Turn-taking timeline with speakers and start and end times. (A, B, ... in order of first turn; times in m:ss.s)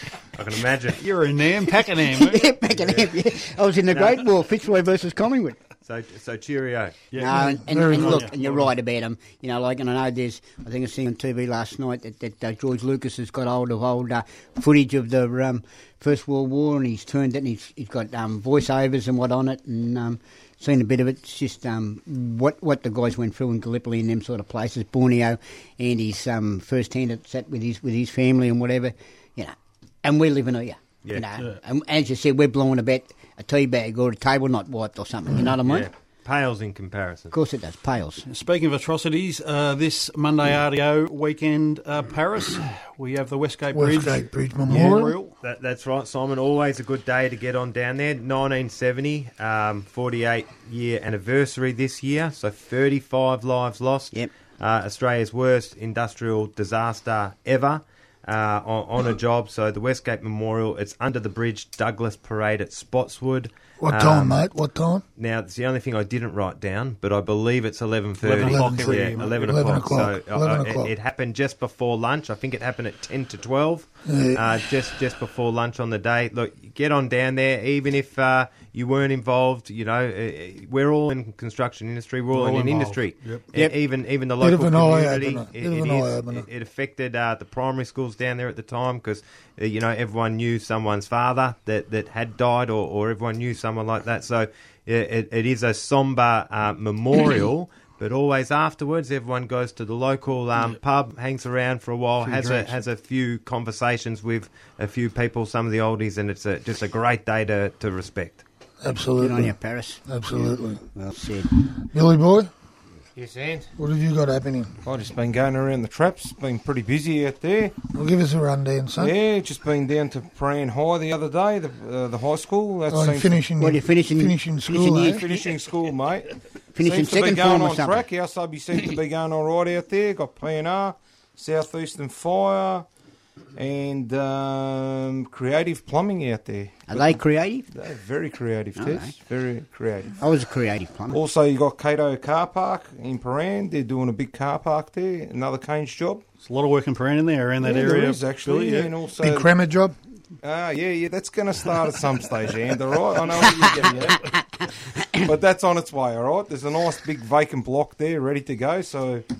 0:00.3-0:01.0 A
0:01.0-0:02.5 B
0:02.0-0:05.6 C
0:03.9-0:04.2 A
0:05.8-0:07.0 A
0:07.1-0:08.7 B
0:07.2-0:35.9 C
0:07.2-0:08.3 D
0:35.6-0:37.3 A
0:37.3-0:38.2 C
0:38.3-0:45.3 B
0:43.7-0:45.2 D
0:45.4-1:04.4 A
1:03.8-1:05.0 D
1:05.2-1:48.4 A
1:08.2-1:09.9 B
1:08.4-1:10.9 D
1:14.0-1:14.4 D
1:22.3-1:23.5 B
1:24.4-1:26.5 D
1:42.2-1:42.8 B
1:48.8-1:50.8 D
1:49.2-1:50.0 C
1:50.9-1:51.5 C
1:51.8-1:52.5 D
1:53.2-1:53.6 A
1:53.8-1:54.8 D
1:54.8-1:57.8 E
1:57.9-1:59.1 D
1:59.0-2:03.4 E
2:02.9-2:05.2 D
2:03.6-2:05.5 C
2:05.0-2:12.8 E
2:06.7-2:08.0 C
2:13.6-2:17.2 E
2:16.9-2:17.7 C
2:17.7-2:20.2 E
2:18.8-2:19.1 C
2:20.2-2:21.2 C
2:21.1-2:26.2 E
2:26.4-2:29.0 B
2:27.6-2:29.5 E
2:29.2-2:29.9 D
2:30.4-2:34.3 E
2:35.2-2:39.2 E